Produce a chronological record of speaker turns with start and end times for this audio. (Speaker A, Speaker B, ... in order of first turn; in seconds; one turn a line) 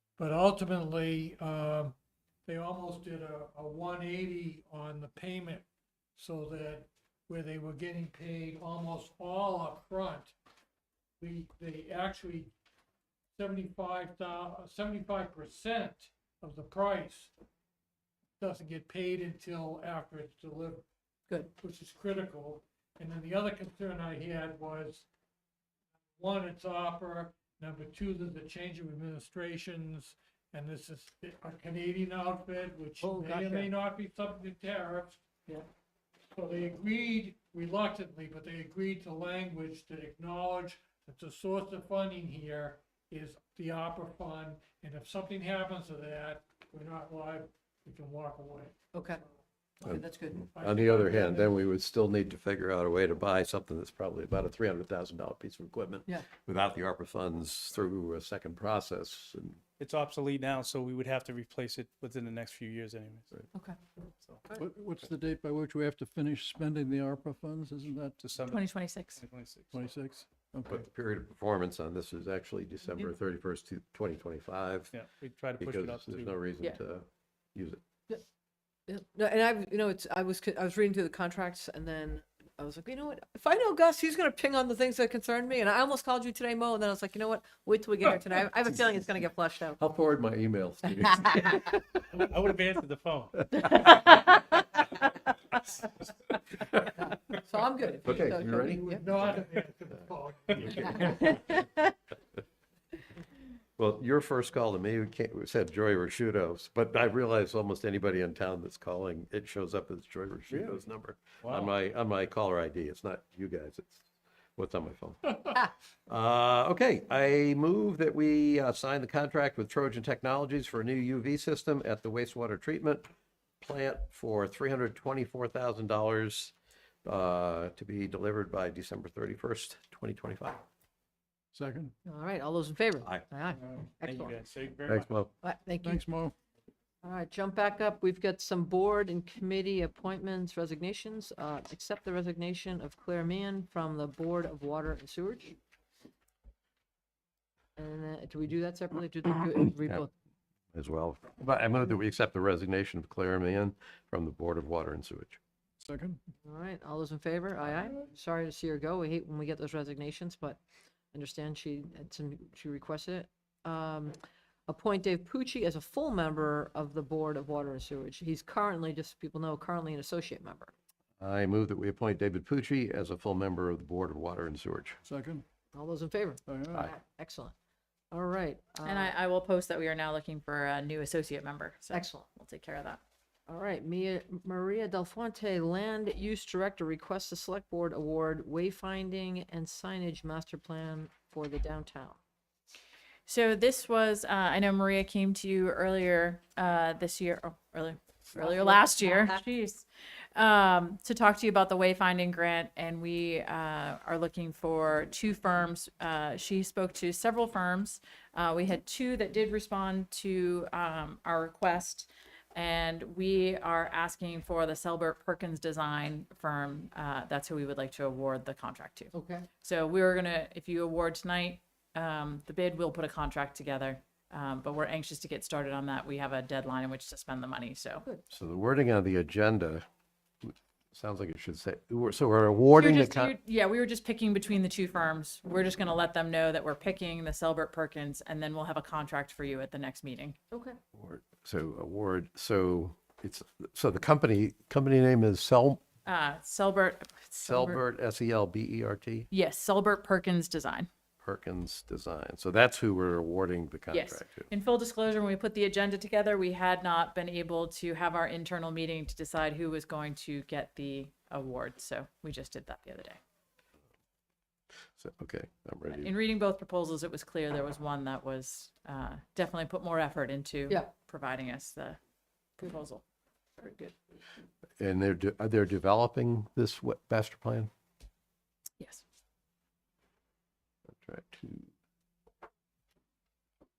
Speaker A: 0.2-1.9
Speaker A: 2.5-10.3
Speaker A: 11.2-12.5
Speaker A: 13.3-17.3
Speaker A: 18.4-20.9
Speaker A: 21.5-25.1
Speaker A: 26.2-35.2
Speaker B: 33.0-33.7
Speaker A: 36.3-48.8
Speaker B: 48.9-49.2
Speaker B: 49.8-50.5
Speaker C: 49.8-59.6
Speaker A: 50.5-51.5
Speaker D: 59.8-63.5
Speaker D: 64.2-64.5
Speaker E: 64.5-68.2
Speaker D: 68.2-68.6
Speaker F: 68.4-69.2
Speaker D: 69.1-69.9
Speaker E: 69.7-70.8
Speaker C: 70.7-74.9
Speaker D: 74.9-76.3
Speaker C: 75.6-77.8
Speaker B: 78.9-89.8
Speaker C: 89.8-91.8
Speaker B: 91.2-91.6
Speaker D: 92.1-93.5
Speaker B: 93.7-94.2
Speaker B: 97.0-99.0
Speaker C: 98.0-99.4
Speaker A: 98.8-101.2
Speaker C: 100.6-101.2
Speaker B: 101.2-101.6
Speaker C: 103.8-114.0
Speaker D: 110.5-110.8
Speaker D: 111.4-111.7
Speaker C: 114.6-115.5
Speaker C: 116.1-123.1
Speaker C: 123.6-126.5
Speaker C: 127.0-130.6
Speaker E: 131.5-131.9
Speaker B: 132.1-134.3
Speaker E: 133.6-133.9
Speaker D: 134.0-135.3
Speaker C: 134.9-135.3
Speaker B: 135.4-136.0
Speaker E: 135.8-136.3
Speaker B: 137.0-145.6
Speaker B: 147.8-150.1
Speaker C: 150.7-155.4
Speaker E: 155.8-156.2
Speaker B: 156.4-160.6
Speaker B: 161.1-164.1
Speaker B: 164.7-170.7
Speaker C: 171.2-175.0
Speaker E: 175.0-175.4
Speaker B: 175.7-177.5
Speaker E: 176.4-176.9
Speaker B: 178.1-179.1
Speaker F: 178.8-183.0
Speaker B: 181.9-182.3
Speaker B: 183.5-192.2
Speaker F: 193.3-228.0
Speaker B: 198.3-199.4
Speaker B: 219.1-219.5
Speaker C: 228.3-229.8
Speaker C: 230.4-233.3
Speaker F: 232.7-240.4
Speaker B: 240.5-240.8
Speaker C: 240.9-245.8
Speaker F: 246.0-247.8
Speaker C: 247.4-249.3
Speaker F: 249.3-250.9
Speaker C: 251.2-254.5
Speaker F: 253.9-263.2
Speaker C: 265.0-266.1
Speaker F: 265.9-272.0
Speaker F: 272.6-273.0
Speaker B: 273.6-273.9
Speaker C: 274.8-277.7
Speaker C: 280.9-281.7